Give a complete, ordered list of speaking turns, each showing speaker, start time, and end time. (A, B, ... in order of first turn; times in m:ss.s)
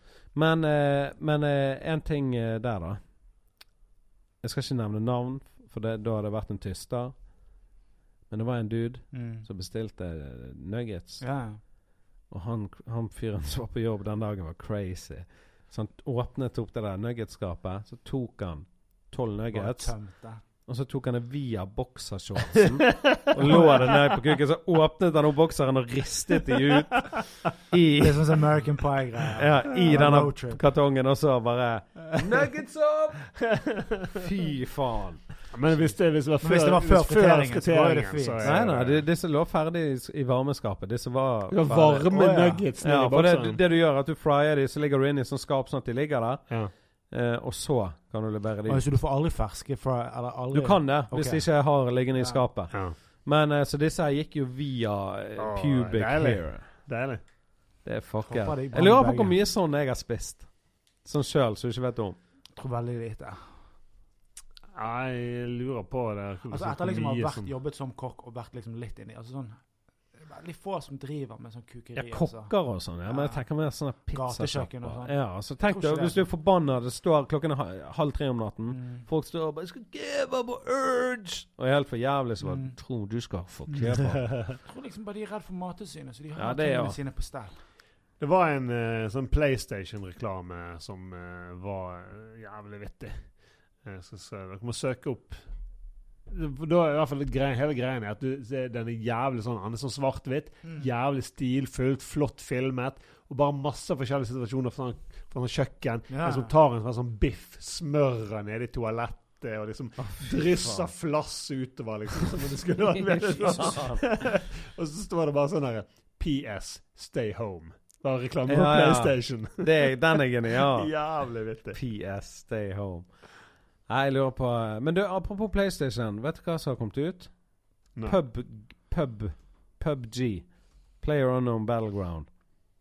0:00.3-0:03.0 A
0:04.4-0:07.2 A
0:08.3-0:11.2 A
0:09.1-0:09.5 B
0:11.2-0:11.6 B
0:12.3-0:20.0 A
0:19.5-0:20.4 B
0:20.7-0:28.5 A
0:22.8-0:23.3 C
0:23.4-0:24.0 B
0:28.0-0:30.6 B
0:29.4-0:33.4 A
0:33.5-0:34.2 C
0:34.1-0:35.9 A
0:35.5-0:39.0 C
0:36.4-0:38.6 B
0:38.4-0:42.1 A
0:41.5-0:43.6 C
0:42.1-0:42.7 B
0:42.8-0:46.6 A
0:47.1-0:48.8 A
0:48.7-0:51.5 B
0:50.5-0:56.6 A
0:52.1-0:52.4 B
0:52.7-0:53.0 C
0:55.4-0:57.2 C
0:57.8-1:00.5 A
0:58.2-0:59.4 B
1:01.0-1:02.2 A
1:02.6-1:03.4 B
1:04.7-1:07.5 C
1:06.5-1:09.6 B
1:10.2-1:12.5 B
1:12.0-1:24.5 A
1:13.1-1:13.4 B
1:14.1-1:16.3 B
1:18.7-1:19.1 B
1:22.4-1:22.8 B
1:23.7-1:23.9 B
1:23.9-1:24.4 C
1:24.5-1:27.6 B
1:26.4-1:27.0 A
1:28.2-1:35.5 C
1:36.3-2:01.8 C
1:46.1-1:46.5 B
1:50.0-1:50.9 A
1:53.0-1:54.0 A
1:58.5-2:01.0 A
2:01.7-2:03.1 A
2:03.9-2:07.3 A
2:08.0-2:10.5 A
2:11.0-2:12.3 A